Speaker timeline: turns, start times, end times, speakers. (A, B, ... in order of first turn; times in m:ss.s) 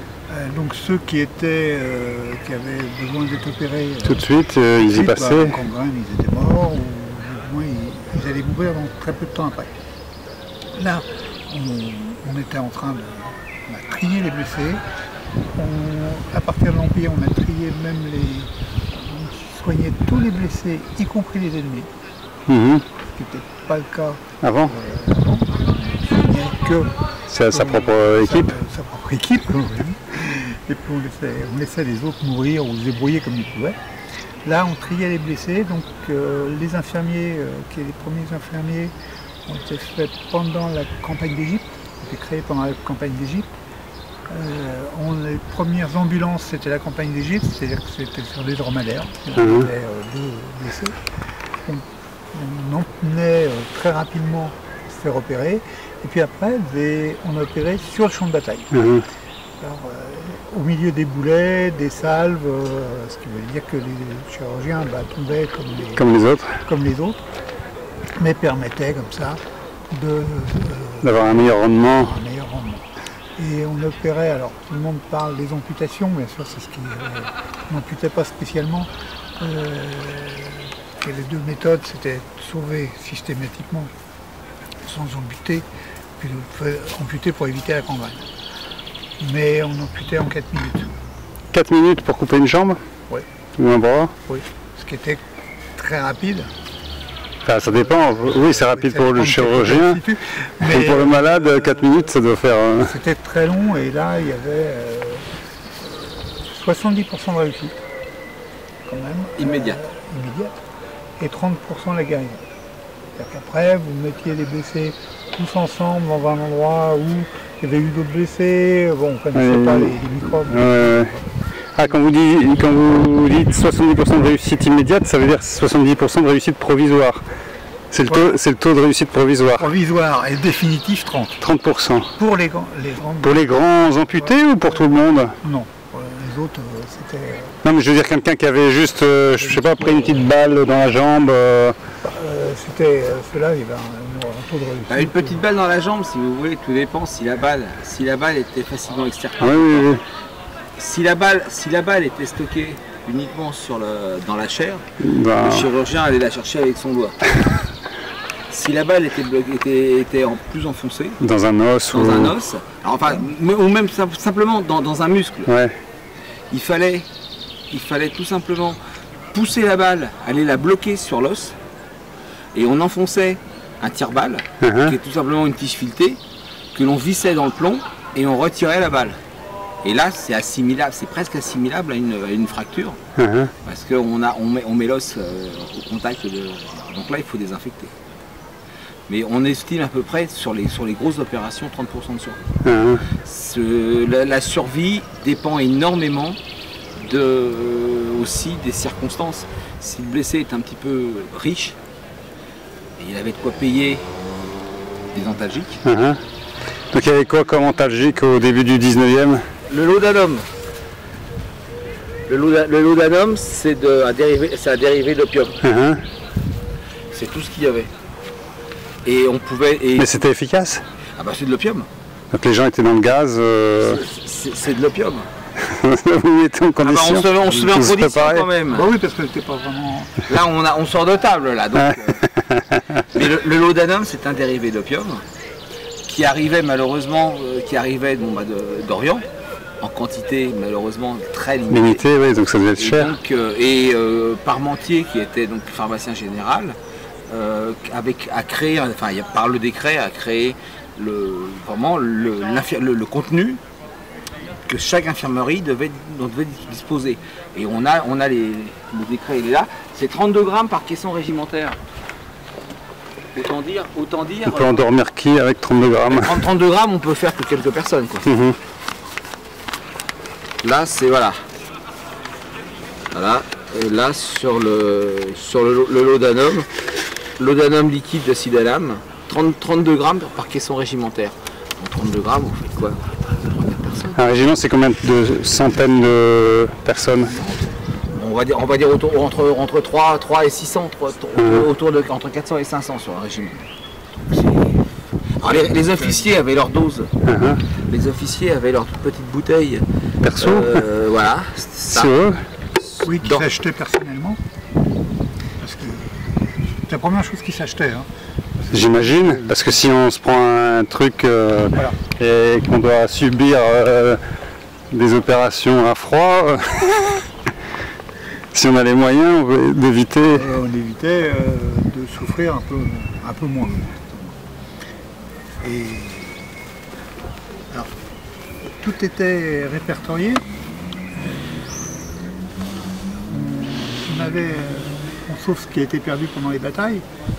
0:00.3-0:04.2 A
0:04.0-0:05.6 B
0:04.8-0:09.7 A
0:10.8-0:14.8 A
0:15.5-0:21.9 A
0:22.5-0:22.8 B
0:23.0-0:26.9 A
0:24.4-0:24.7 B
0:27.3-0:28.5 B
0:27.5-0:33.8 A
0:34.4-0:38.9 A
0:39.4-0:43.5 A
0:44.3-0:50.9 A
0:49.4-0:49.7 B
0:51.6-0:58.7 A
0:58.7-0:59.0 B
0:59.6-1:07.2 A
1:06.0-1:06.6 B
1:08.2-1:12.8 A
1:11.0-1:12.1 B
1:13.4-1:23.9 A
1:24.8-1:25.6 A
1:26.2-1:28.3 A
1:29.2-1:30.9 A
1:31.5-1:32.8 B
1:33.6-1:34.1 B
1:34.2-1:35.2 A
1:35.7-1:36.5 A
1:37.4-1:40.0 B
1:37.6-1:42.1 A
1:40.6-1:43.0 B
1:42.8-1:45.2 A
1:45.8-1:47.8 A
1:48.8-1:50.6 A
1:49.4-1:49.8 C
1:51.2-1:52.4 A
1:53.2-2:01.2 A
1:59.3-2:01.1 B
2:01.8-2:07.2 B
2:07.9-2:09.6 B
2:08.0-2:08.3 A
2:09.6-2:11.4 A
2:11.4-2:12.1 B
2:12.2-2:13.5 A
2:13.2-2:15.3 B
2:14.2-2:17.6 A
2:17.6-2:21.8 B
2:19.4-2:20.3 A
2:22.0-2:25.4 A
2:24.9-2:29.9 C
2:29.4-2:30.0 B
2:30.8-2:37.2 C
2:35.0-2:35.7 B
2:38.5-2:41.2 C
2:41.2-2:42.4 B
2:41.9-2:45.5 C
2:45.5-2:45.7 B
2:46.5-2:47.1 C
2:47.7-2:48.8 C
2:49.3-2:51.6 C
2:52.5-2:56.2 C
2:54.6-2:54.9 B
2:56.7-2:59.2 C
2:59.8-3:03.0 C
3:03.2-3:03.5 B
3:03.6-3:07.9 C
3:09.1-3:12.4 C
3:12.6-3:13.0 B
3:13.1-3:16.4 C
3:17.0-3:21.8 C
3:23.0-3:24.0 C
3:25.1-3:25.8 C
3:25.8-3:26.2 B
3:26.9-3:29.4 B
3:29.7-3:30.5 C
3:32.3-3:35.6 C
3:35.6-3:36.0 B
3:37.1-3:37.9 C
3:39.0-3:40.2 C
3:40.0-3:40.8 B
3:41.2-3:41.9 C
3:42.3-3:44.0 B
3:43.8-3:45.3 C
3:45.6-3:48.5 B
3:46.8-3:48.8 C
3:48.7-3:50.1 A
3:50.3-3:52.2 C
3:51.8-3:53.0 B
3:53.1-3:55.2 C
3:56.1-3:59.2 C
3:59.8-4:02.0 C
4:01.7-4:03.1 B
4:02.8-4:06.8 C
4:07.3-4:13.6 C
4:14.6-4:21.8 C
4:23.3-4:24.9 C
4:24.4-4:26.4 B
4:26.1-4:28.3 C
4:28.2-4:28.6 B
4:30.6-4:31.4 C
4:33.1-4:36.7 C
4:37.4-4:44.3 C
4:44.2-4:47.3 B
4:47.2-4:53.6 C
4:51.4-4:51.7 B
4:54.3-4:54.7 C
4:55.4-4:57.1 C
4:57.2-4:57.6 B
4:57.9-4:59.8 C
5:00.2-5:00.8 B
5:00.4-5:02.1 C
5:01.9-5:02.4 B
5:02.8-5:03.4 C
5:03.0-5:04.4 A
5:05.6-5:08.1 A
5:08.6-5:09.7 A
5:08.7-5:14.2 B
5:14.9-5:17.2 B
5:18.5-5:20.4 B
5:20.2-5:24.4 A
5:25.6-5:26.4 A
5:28.6-5:30.4 A
5:31.0-5:32.3 A
5:33.2-5:37.0 A